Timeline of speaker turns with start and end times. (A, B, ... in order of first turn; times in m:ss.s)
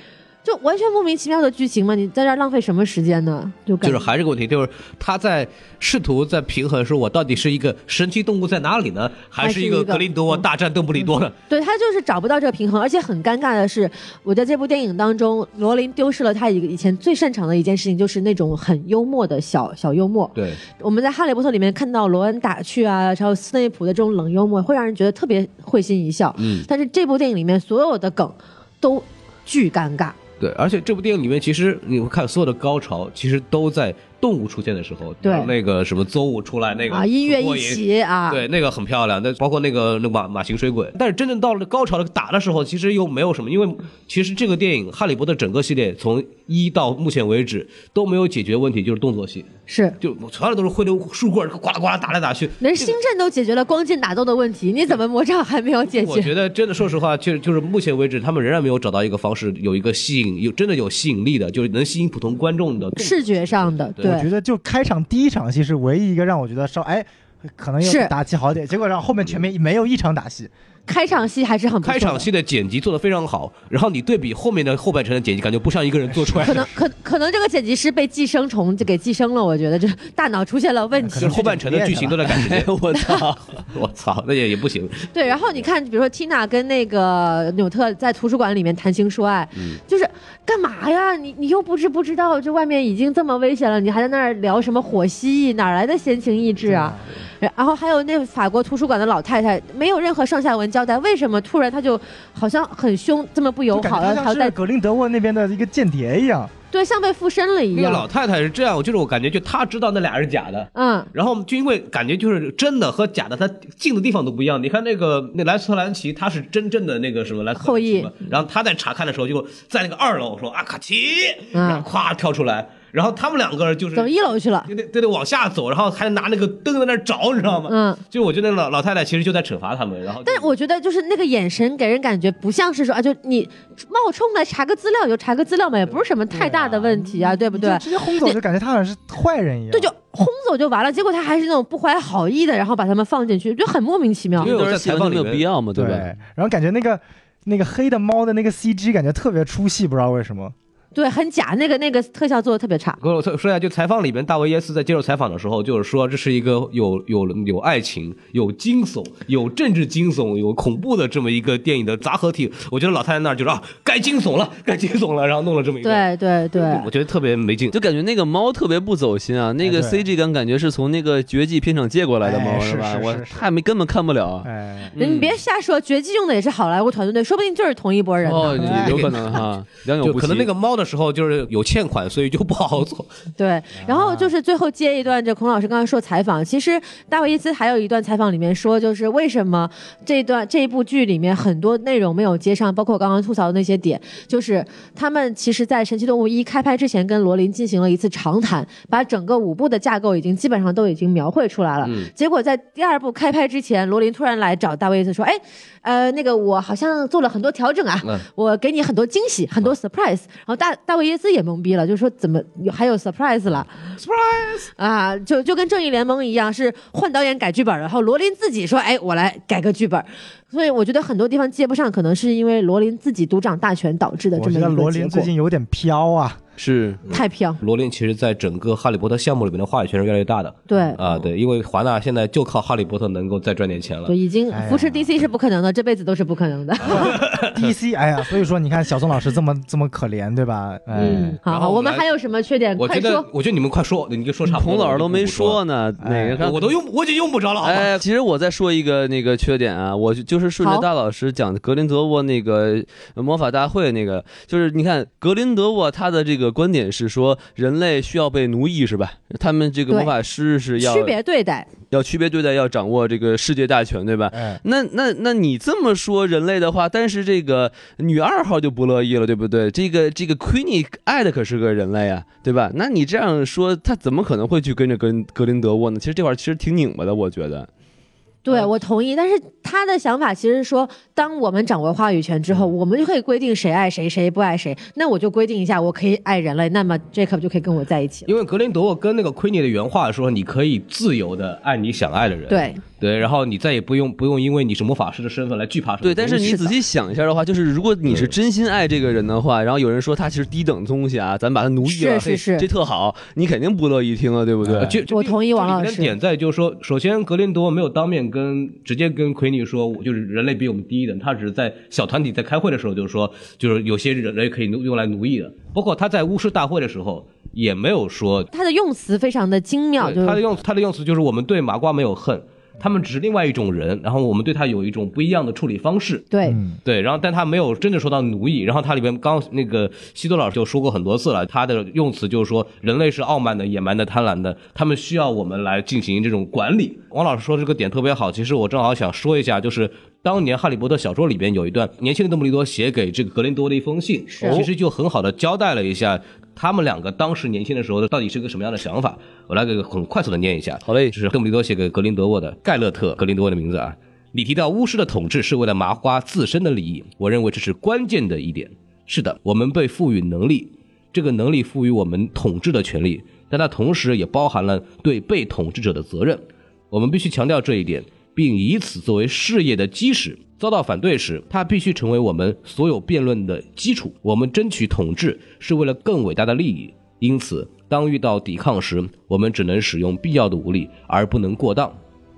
0:00.4-0:04.0 A
0:03.8-0:11.3 B
0:09.4-0:10.4 A
0:11.5-0:30.2 A
0:20.3-0:20.6 B
0:26.4-0:26.7 B
0:30.4-0:49.5 B
0:35.2-0:35.5 A
0:36.9-0:38.4 A
0:49.7-0:50.0 A
0:50.0-0:53.0 B
0:52.6-0:56.3 A
0:55.9-1:04.2 B
1:03.0-1:04.3 A
1:04.0-1:10.5 C
1:07.8-1:08.1 A
1:10.9-1:12.3 A
1:11.8-1:16.6 B
1:16.1-1:16.7 C
1:16.4-1:21.5 A
1:21.0-1:22.3 C
1:21.2-1:22.7 B
1:22.2-1:23.6 D
1:23.0-1:23.2 A
1:23.7-1:25.6 B
1:25.1-1:44.6 A
1:36.6-1:37.1 C
1:43.7-1:46.5 C
1:46.7-1:48.0 A
1:47.7-2:10.5 B
1:50.7-1:51.1 A
1:57.6-1:58.1 A
2:01.5-2:01.9 A
2:03.9-2:04.7 A
2:07.7-2:08.0 A
2:10.2-2:18.4 A
2:16.3-2:19.9 C
2:19.7-2:24.5 A
2:24.4-2:25.4 B
2:24.4-2:26.1 D
2:25.7-2:30.5 C
2:30.9-2:33.0 A
2:33.0-2:47.8 B
2:45.8-2:46.9 A
2:47.7-2:55.4 D
2:49.6-2:50.0 C
2:52.2-2:53.4 C
2:54.4-2:55.0 C
2:55.0-2:58.7 A
2:58.2-3:00.5 D
2:58.6-2:59.0 C
2:58.6-2:59.4 B
3:00.0-3:03.1 B
3:03.4-3:33.7 A
3:03.8-3:04.3 C
3:21.8-3:22.1 B
3:34.0-3:34.7 B
3:34.8-3:45.3 A
3:44.3-3:46.4 C
3:46.6-3:47.0 D
3:47.1-3:47.6 A
3:47.1-3:54.1 B
3:50.7-3:51.2 A
3:54.1-3:57.2 A
3:54.5-3:55.1 C
3:56.8-3:57.7 B
3:56.9-4:01.4 C
4:01.0-4:02.0 B
4:01.4-4:03.3 A
4:02.8-4:05.6 B
4:04.4-4:06.7 D
4:06.0-4:06.6 C
4:06.4-4:07.9 B
4:07.6-4:21.1 D
4:10.6-4:10.8 A
4:20.8-4:21.7 A
4:21.9-4:37.7 D
4:24.3-4:24.6 C
4:38.4-4:48.3 A
4:48.3-4:56.6 B
4:52.5-4:52.8 A
4:56.0-5:05.0 D
4:56.4-4:56.7 A
4:58.1-4:58.3 B
5:01.8-5:02.7 A
5:04.6-5:04.9 C
5:04.8-5:18.5 B
5:05.1-5:06.1 A
5:18.5-5:20.4 A
5:20.0-5:26.3 B
5:26.3-5:26.6 A
5:26.4-5:26.8 C
5:26.8-6:22.0 B
5:44.3-5:44.6 A
5:44.4-5:44.7 D
5:50.8-5:51.1 D